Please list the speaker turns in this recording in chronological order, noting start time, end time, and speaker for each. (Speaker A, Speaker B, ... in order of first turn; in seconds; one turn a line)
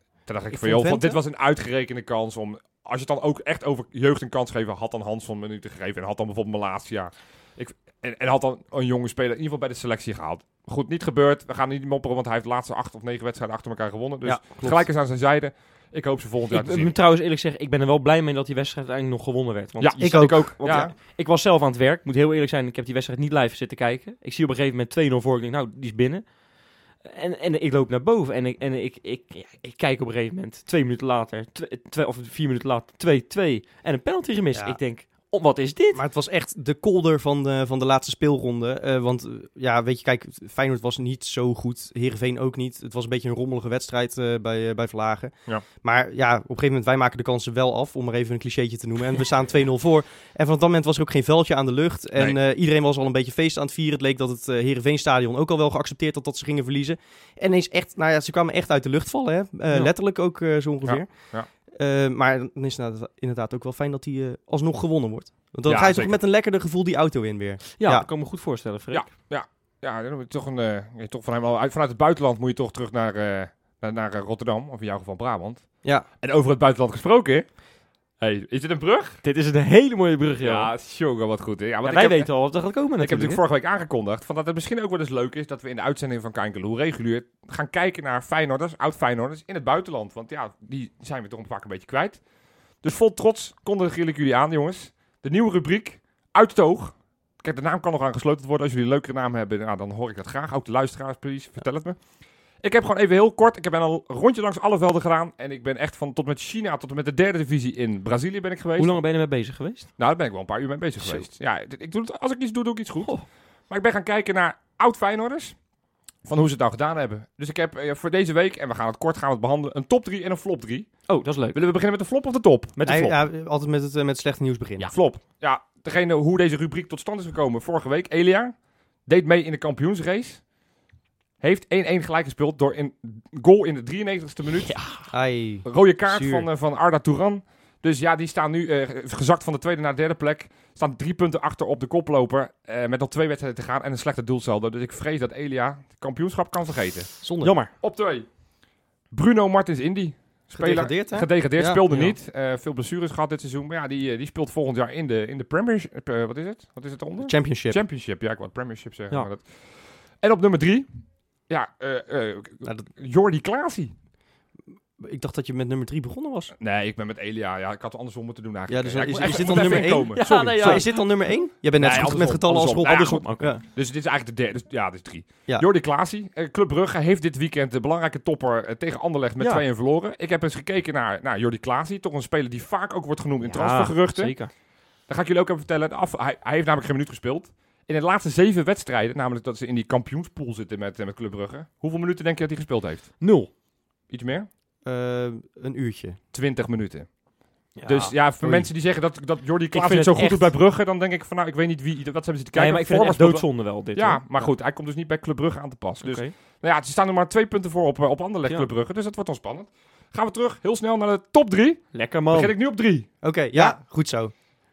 Speaker A: 0.2-16.9
Speaker B: 0.5-1.2
Speaker B: 14.2-14.8
Speaker C: 16.5-26.2
Speaker A: 19.8-20.9
Speaker B: 20.0-20.5
Speaker C: 27.0-36.0
Speaker B: 35.9-61.1
Speaker A: 60.8-61.5
Speaker B: 61.7-68.1
Speaker A: 65.7-66.2
Speaker C: 67.8-69.0
Speaker A: 68.9-75.7
Speaker A: 76.2-77.5
Speaker A: 78.2-79.2
Speaker C: 79.2-80.7
Speaker A: 80.4-82.3
Speaker C: 81.8-83.4
Speaker A: 83.0-92.2
Speaker A: 92.8-102.0
Speaker A: 102.6-108.9
Speaker C: 108.8-109.9
Speaker A: 110.0-113.1
Speaker A: 113.7-115.5
Speaker A: 116.2-120.9
Speaker C: 121.1-121.6
Speaker A: 121.5-122.8
Speaker C: 122.8-123.2
Speaker B: 122.8-124.9
Speaker A: 124.8-128.5
Speaker A: 129.1-130.4
Speaker A: 131.4-134.8
Speaker C: 134.6-135.1
Speaker B: 135.1-136.4
Speaker A: 135.7-147.1
Speaker B: 147.2-147.5
Speaker C: 147.4-147.7
Speaker A: 147.8-148.2
Speaker A: 149.1-159.4
Speaker B: 150.5-151.8
Speaker C: 151.9-152.1
Speaker B: 157.2-157.8
Speaker A: 160.2-160.9
Speaker A: 161.5-163.9
Speaker B: 165.0-166.5
Speaker A: 166.6-170.9
Speaker B: 168.7-173.6
Speaker C: 169.2-171.0
Speaker A: 171.8-184.3
Speaker C: 172.8-173.6
Speaker C: 183.4-184.5
Speaker A: 185.1-193.2
Speaker C: 193.2-193.5
Speaker A: 194.1-194.5
Speaker B: 194.8-196.2
Speaker A: 196.3-197.1
Speaker C: 197.8-198.6
Speaker A: 197.8-213.1
Speaker C: 199.7-200.5
Speaker C: 202.5-204.2
Speaker C: 206.0-206.3
Speaker C: 211.9-212.5
Speaker B: 213.2-214.3